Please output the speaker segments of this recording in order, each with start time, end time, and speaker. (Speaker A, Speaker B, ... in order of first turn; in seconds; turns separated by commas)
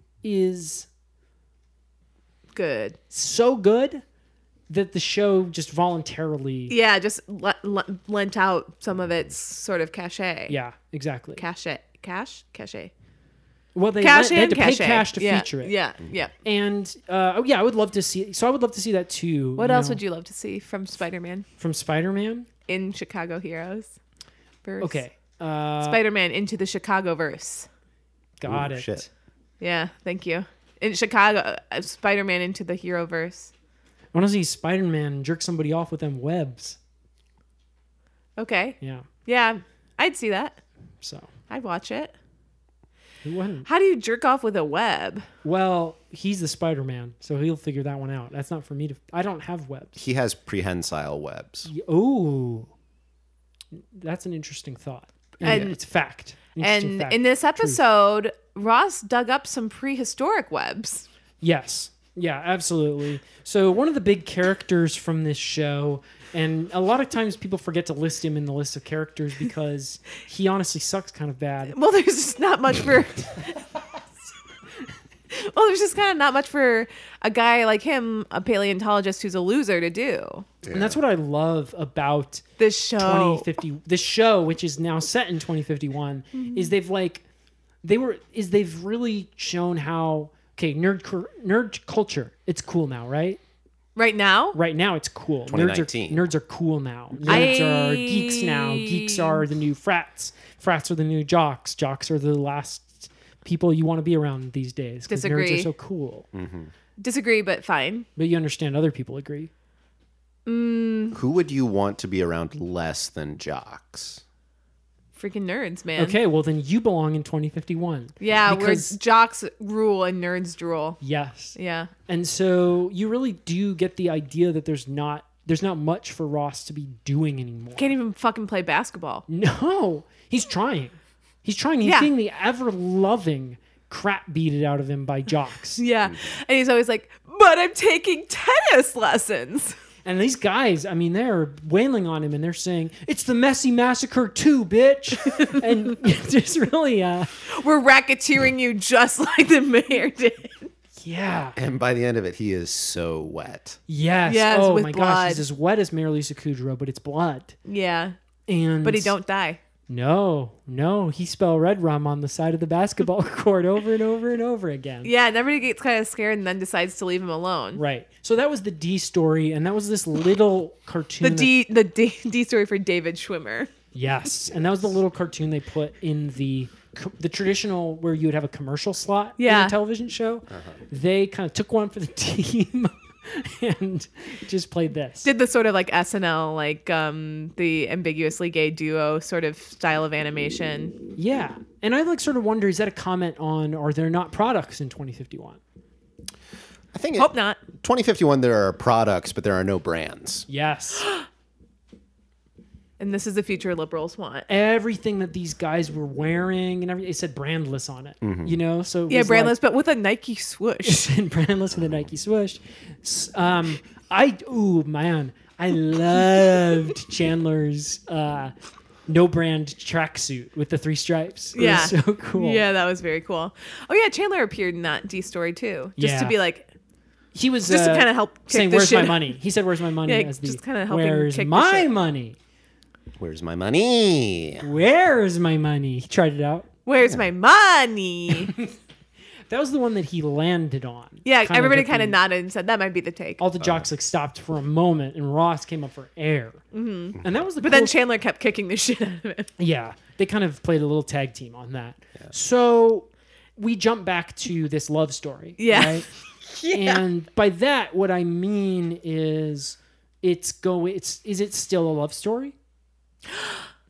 Speaker A: 0.2-0.9, Speaker B: 2.5-3.0, Speaker A: 3.1-4.0, Speaker A: 4.7-6.7, Speaker B: 6.7-10.6, Speaker A: 10.5-11.4, Speaker B: 11.4-12.9, Speaker A: 13.7-15.7, Speaker B: 14.0-16.3, Speaker A: 16.4-20.0, Speaker B: 19.6-21.4, Speaker A: 21.6-22.5, Speaker B: 22.7-24.0, Speaker B: 24.6-25.0, Speaker A: 24.8-26.0, Speaker B: 25.8-27.7, Speaker A: 28.4-29.1, Speaker C: 28.4-29.0, Speaker B: 29.6-33.5, Speaker A: 34.1-36.8, Speaker B: 38.4-40.6, Speaker A: 38.8-39.1, Speaker A: 41.0-41.3, Speaker B: 41.5-42.1, Speaker A: 43.2-43.7, Speaker B: 43.6-45.3, Speaker A: 45.4-50.0, Speaker C: 50.0-51.7, Speaker A: 51.6-52.7, Speaker A: 53.7-57.8, Speaker C: 55.4-55.7, Speaker B: 55.4-55.7, Speaker B: 56.6-61.1, Speaker A: 61.4-71.8, Speaker B: 71.7-73.6, Speaker B: 75.3-80.5, Speaker C: 80.6-81.0, Speaker A: 80.7-82.4, Speaker B: 82.6-83.5, Speaker A: 83.0-87.2, Speaker B: 86.3-86.7, Speaker A: 87.8-93.4, Speaker B: 94.0-94.6, Speaker A: 94.5-106.3, Speaker C: 95.5-96.3, Speaker B: 97.3-99.4, Speaker B: 105.1-105.7, Speaker C: 106.3-106.7, Speaker B: 107.0-108.1, Speaker A: 108.2-109.5, Speaker B: 110.5-111.2, Speaker C: 111.1-114.2, Speaker B: 115.1-116.2, Speaker A: 116.0-119.0, Speaker B: 118.2-121.0, Speaker A: 121.0-127.9, Speaker B: 121.5-121.9, Speaker B: 127.8-129.2, Speaker A: 129.3-135.8, Speaker B: 131.8-132.1, Speaker B: 135.8-139.8, Speaker A: 140.0-147.3, Speaker B: 147.4-150.7, Speaker A: 151.0-151.6, Speaker C: 151.6-153.8, Speaker A: 153.9-157.6, Speaker B: 154.2-155.4, Speaker B: 157.7-158.2, Speaker A: 158.5-159.1, Speaker B: 158.8-159.6, Speaker A: 159.9-165.1, Speaker B: 165.0-167.8, Speaker A: 167.7-171.5, Speaker B: 171.2-173.7, Speaker A: 173.9-185.3, Speaker B: 179.4-179.7, Speaker C: 180.5-180.8, Speaker B: 185.2-191.0, Speaker A: 191.2-195.6, Speaker C: 196.9-200.5, Speaker B: 197.2-197.6, Speaker A: 200.5-201.1, Speaker B: 203.0-204.5, Speaker A: 204.5-209.6, Speaker C: 208.2-208.5, Speaker B: 209.1-211.1, Speaker A: 210.8-218.5, Speaker A: 219.1-222.6, Speaker B: 221.6-226.7, Speaker A: 226.0-226.4, Speaker A: 227.3-232.4, Speaker B: 227.7-229.3, Speaker B: 230.1-231.9, Speaker C: 233.2-234.7, Speaker A: 234.6-236.7, Speaker B: 236.8-238.5, Speaker A: 238.4-238.8, Speaker A: 239.5-242.2, Speaker B: 241.2-243.4, Speaker A: 243.4-246.6, Speaker B: 246.7-249.5, Speaker A: 247.2-247.9, Speaker A: 249.6-256.1, Speaker B: 255.6-257.0, Speaker A: 256.7-262.5, Speaker B: 263.3-263.6